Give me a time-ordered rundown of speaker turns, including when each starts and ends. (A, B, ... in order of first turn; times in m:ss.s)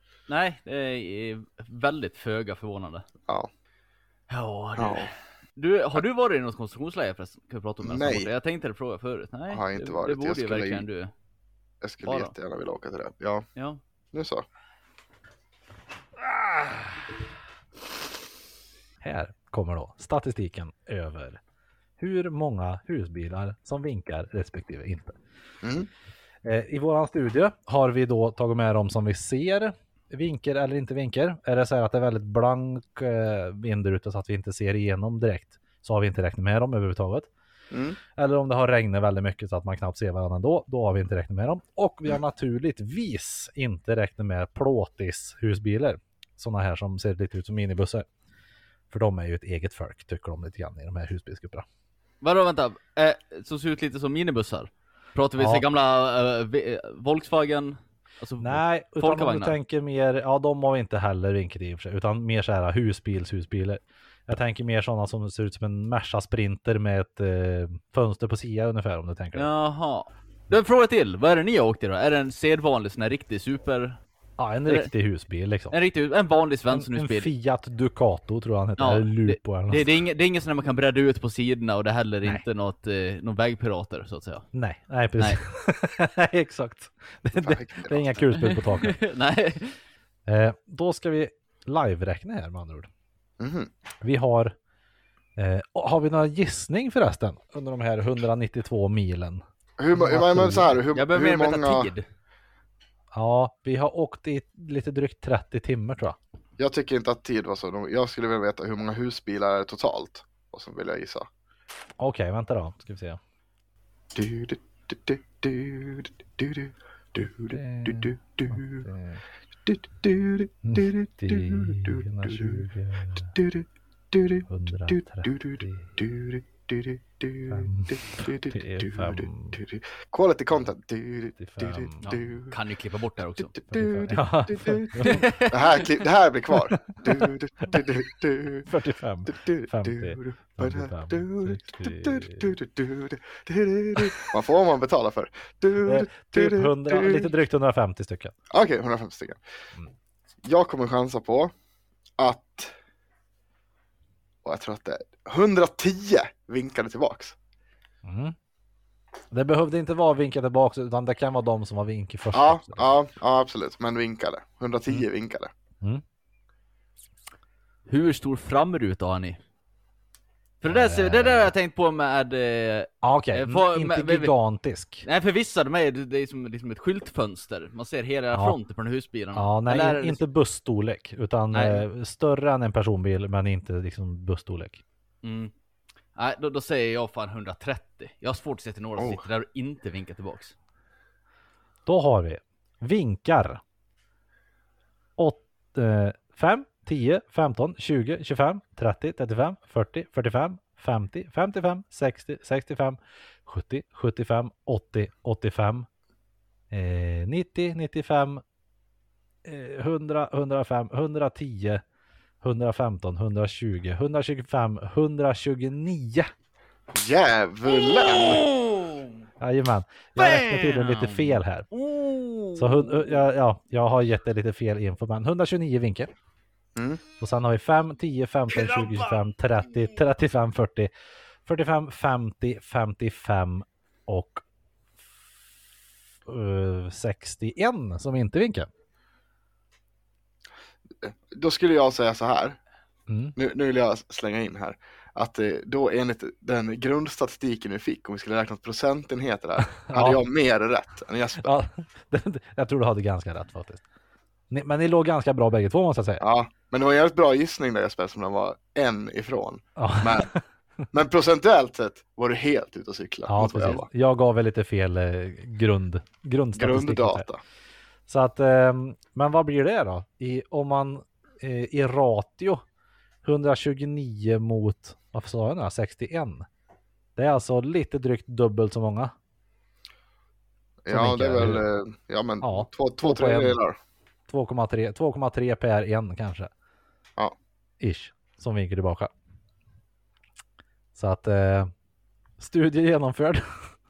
0:00.3-0:03.0 A
0:04.3-0:11.1 A
0:04.8-0:05.1 B
0:07.8-0:08.3 B
0:09.5-0:10.8 B
0:11.8-0:13.4 B
0:12.0-0:12.3 A
0:14.1-0:14.4 B
0:16.5-0:16.8 C
0:19.0-0:21.4 C
0:22.0-0:25.2 C
0:25.6-0:25.9 B
0:26.4-0:37.3 C
0:37.7-0:38.0 B
0:38.2-0:48.1 C
0:48.9-0:51.6 C
0:52.2-0:59.6 A
0:55.4-0:55.6 C
0:58.4-1:09.5 C
1:09.3-1:14.0 A
1:14.4-1:15.7 C
1:15.7-1:17.3 A
1:16.7-1:19.9 C
1:18.8-1:24.5 A
1:24.5-1:29.0 C
1:27.3-1:28.2 B
1:28.4-1:29.8 A
1:30.2-1:32.9 C
1:33.4-1:33.7 B
1:34.0-1:34.6 C
1:35.4-1:39.4 C
1:39.8-1:41.9 B
1:39.9-1:40.8 C
1:40.9-1:42.0 A
1:43.1-1:46.2 C
1:46.6-1:51.3 B
1:52.0-1:53.2 C
1:54.1-1:58.8 B
1:57.5-1:59.2 C
1:59.7-2:02.6 B
2:00.6-2:03.4 C
2:03.3-2:12.6 B
2:04.4-2:05.9 C
2:07.5-2:09.6 C
2:11.4-2:12.1 C
2:12.0-2:13.6 A
2:13.4-2:18.7 B
2:13.7-2:15.3 C
2:15.0-2:15.9 A
2:16.7-2:17.8 C
2:18.6-2:22.5 C
2:19.3-2:27.3 B
2:24.0-2:24.3 C
2:25.8-2:28.3 C
2:28.5-2:29.4 B
2:30.4-2:31.5 B
2:32.2-2:32.8 B
2:34.4-2:37.3 B
2:38.0-2:38.4 C
2:39.3-2:42.8 C
2:42.3-2:45.5 B
2:47.9-2:49.4 A
2:50.6-2:54.3 A
2:50.7-2:51.5 C
2:53.0-2:55.0 C
2:55.0-3:00.2 A
2:59.3-3:04.8 C
3:01.5-3:01.8 A
3:05.2-3:05.5 A
3:06.1-3:10.5 A
3:09.0-3:09.2 B
3:11.8-3:13.6 C
3:15.2-3:25.9 C
3:26.7-3:28.4 C
3:29.4-3:31.8 C
3:32.4-3:36.3 C
3:36.9-3:38.5 B
3:37.9-3:39.1 A
3:39.4-3:41.7 C
3:40.2-3:43.2 A
3:42.6-3:46.1 C
3:46.8-3:47.0 B
3:47.2-3:50.9 C
3:51.4-3:54.4 C
3:56.2-3:58.7 C
4:01.0-4:02.6 B
4:03.1-4:03.3 C
4:03.4-4:11.5 B
4:09.8-4:10.2 C
4:11.4-4:13.8 C
4:14.5-4:16.2 C
4:16.2-4:20.3 B
4:19.8-4:20.3 C
4:20.9-4:23.9 B
4:23.3-4:27.2 C
4:26.5-4:27.4 B
4:28.1-4:32.6 C
4:33.2-4:36.5 C
4:37.2-4:39.1 C
4:40.8-4:43.8 B
4:40.9-4:41.6 C
4:42.4-4:43.6 C
4:44.3-4:46.5 C
4:47.8-4:49.1 C
4:50.9-4:51.7 C
4:52.4-4:53.7 C